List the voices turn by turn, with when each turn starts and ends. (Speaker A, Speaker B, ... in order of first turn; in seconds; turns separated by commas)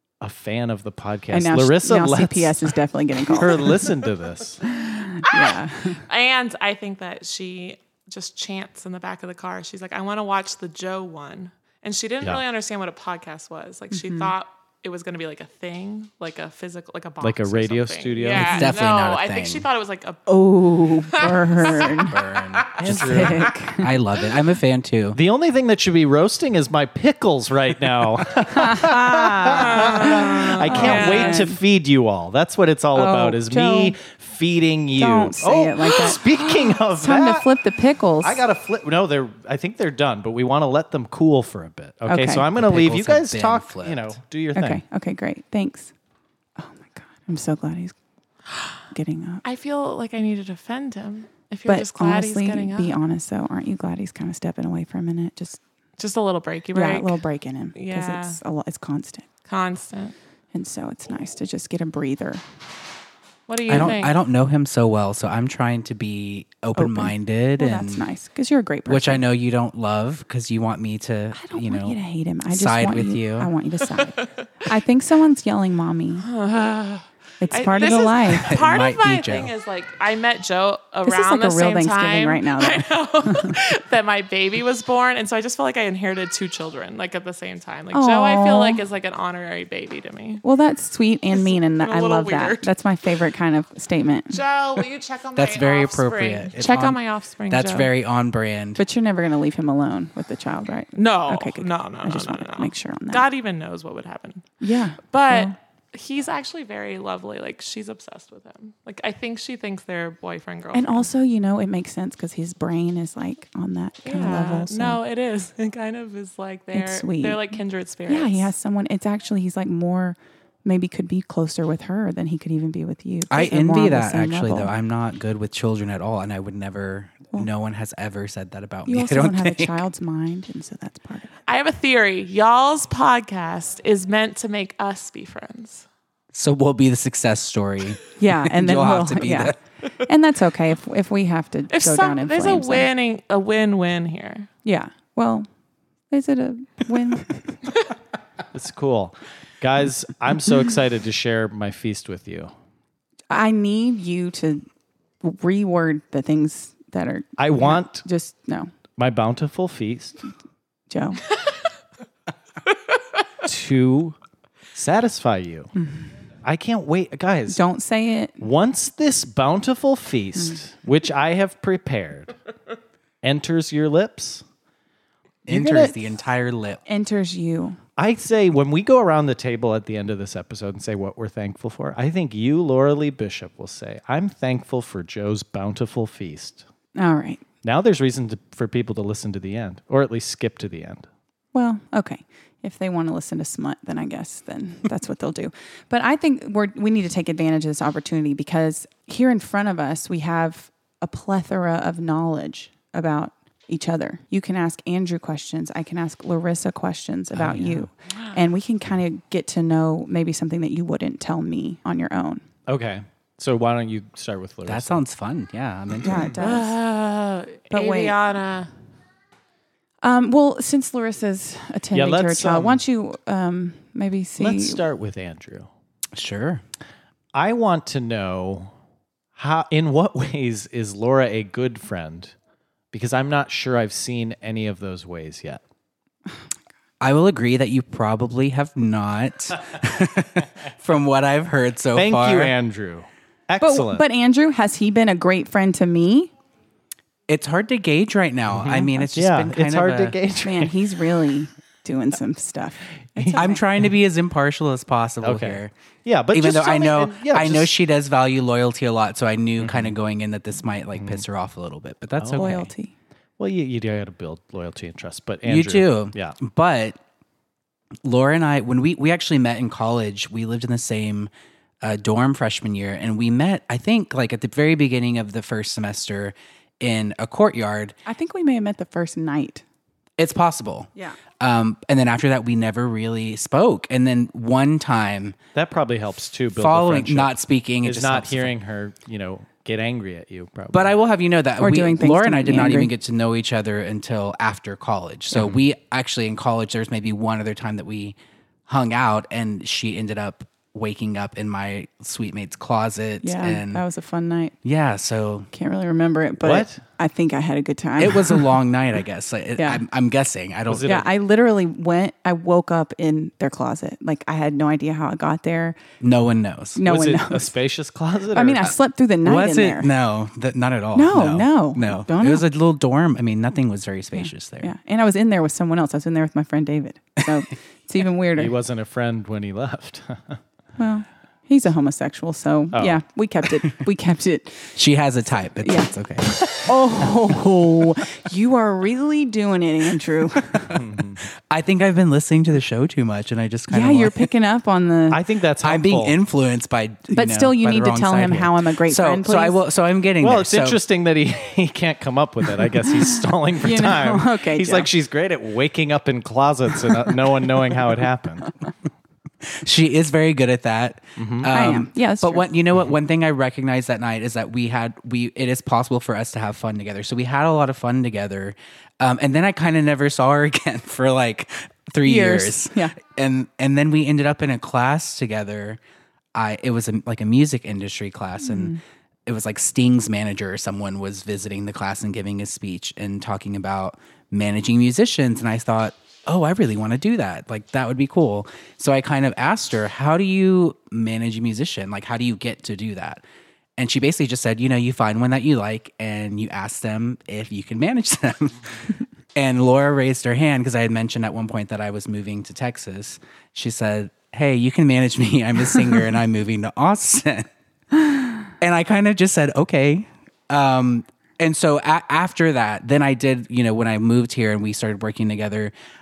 Speaker A: 0.2-2.7, Speaker B: 1.3-3.8, Speaker A: 3.3-4.6, Speaker B: 4.6-6.0, Speaker C: 6.1-22.7, Speaker B: 13.9-14.3, Speaker A: 17.2-18.7, Speaker D: 18.4-19.6, Speaker B: 20.3-22.1, Speaker D: 21.8-25.2, Speaker A: 22.8-23.5, Speaker B: 22.8-23.9, Speaker A: 25.1-37.5, Speaker B: 28.5-31.6, Speaker C: 29.5-31.4, Speaker B: 32.9-34.0, Speaker B: 35.0-36.3, Speaker B: 36.9-38.4, Speaker A: 38.2-44.8, Speaker B: 42.1-42.5, Speaker D: 42.5-44.2, Speaker B: 44.5-45.9, Speaker B: 46.6-47.9, Speaker B: 48.9-49.4, Speaker C: 49.4-52.9, Speaker B: 51.6-55.6, Speaker C: 56.0-57.2, Speaker B: 56.8-59.3, Speaker C: 57.8-58.4, Speaker C: 59.5-60.1, Speaker B: 60.5-62.4, Speaker C: 63.5-64.1, Speaker D: 63.7-68.1, Speaker B: 66.8-69.2, Speaker D: 68.9-73.5, Speaker B: 71.3-76.2, Speaker C: 74.0-74.3, Speaker C: 76.2-90.4, Speaker B: 77.4-78.6, Speaker D: 78.3-79.5, Speaker B: 81.1-83.5, Speaker B: 87.9-88.8, Speaker B: 90.4-94.4, Speaker C: 91.3-92.7, Speaker C: 94.3-97.9, Speaker D: 95.3-97.0, Speaker D: 97.5-98.8, Speaker B: 98.8-103.2, Speaker C: 100.9-104.5, Speaker B: 104.6-105.5, Speaker C: 105.1-111.1, Speaker B: 110.7-115.0, Speaker C: 114.0-118.5, Speaker B: 116.7-124.7, Speaker D: 123.3-129.8, Speaker B: 128.9-131.3, Speaker C: 131.5-135.8, Speaker D: 136.3-139.6, Speaker B: 138.2-142.9, Speaker C: 141.7-144.5, Speaker B: 144.6-145.5, Speaker B: 146.1-147.6, Speaker A: 148.5-152.5, Speaker B: 153.3-154.6, Speaker B: 155.2-158.7, Speaker A: 157.4-158.0, Speaker A: 159.0-160.2, Speaker B: 160.9-161.2, Speaker A: 163.4-164.2, Speaker A: 164.7-165.7, Speaker B: 165.8-166.1, Speaker A: 166.4-167.6, Speaker B: 167.5-168.4, Speaker A: 168.4-172.3, Speaker A: 173.2-174.4, Speaker A: 175.5-176.0, Speaker D: 175.5-176.8, Speaker B: 176.9-177.8, Speaker A: 178.0-186.6, Speaker B: 187.0-187.4, Speaker A: 187.6-191.1, Speaker B: 191.5-212.4, Speaker D: 207.3-207.9, Speaker A: 212.7-215.0, Speaker D: 214.7-216.3, Speaker B: 216.0-216.8, Speaker C: 216.4-218.7, Speaker B: 217.7-218.1, Speaker B: 220.0-224.8, Speaker A: 221.9-222.8, Speaker A: 224.4-225.7, Speaker D: 226.1-226.6, Speaker A: 227.3-228.7, Speaker A: 229.4-232.3, Speaker A: 232.9-235.6, Speaker D: 237.0-242.5, Speaker A: 241.9-244.0, Speaker B: 243.6-246.3, Speaker D: 247.3-250.2, Speaker A: 248.5-250.8, Speaker B: 250.4-253.6, Speaker A: 253.2-253.4, Speaker D: 253.3-255.7, Speaker A: 255.2-257.7, Speaker D: 256.3-262.7, Speaker A: 259.6-259.9, Speaker A: 261.0-261.2, Speaker A: 262.2-262.5, Speaker B: 262.4-262.9, Speaker A: 263.4-266.4, Speaker D: 265.5-267.0, Speaker D: 268.0-271.3, Speaker D: 271.8-278.0, Speaker B: 278.0-279.6, Speaker D: 280.2-280.9, Speaker D: 281.4-285.4, Speaker A: 285.5-290.9, Speaker D: 286.5-288.5, Speaker D: 290.7-298.1, Speaker B: 291.6-292.9, Speaker D: 298.7-303.8, Speaker B: 303.2-304.5, Speaker D: 304.6-305.5, Speaker B: 305.5-308.5, Speaker A: 306.4-306.8, Speaker D: 308.0-311.1, Speaker B: 309.6-309.8, Speaker A: 310.7-311.0, Speaker B: 310.9-315.8, Speaker D: 316.0-316.8, Speaker B: 316.8-317.5, Speaker A: 316.8-318.7, Speaker B: 318.3-319.9, Speaker D: 319.2-324.7, Speaker B: 320.9-322.5, Speaker B: 324.1-328.5, Speaker A: 328.4-330.4, Speaker B: 330.8-334.7, Speaker A: 332.7-333.0, Speaker D: 334.8-337.1, Speaker B: 335.6-335.9, Speaker B: 336.6-340.8, Speaker A: 340.7-341.2, Speaker D: 341.5-344.3, Speaker B: 343.7-345.2, Speaker A: 345.1-346.2, Speaker D: 345.6-350.8, Speaker B: 347.1-349.6, Speaker A: 350.2-358.5, Speaker B: 353.6-354.9, Speaker D: 359.4-375.8, Speaker A: 361.2-361.5, Speaker B: 361.5-362.5, Speaker B: 372.0-373.0, Speaker D: 376.3-378.8, Speaker B: 378.4-378.8, Speaker D: 379.2-393.2, Speaker D: 393.8-398.8, Speaker D: 399.4-415.7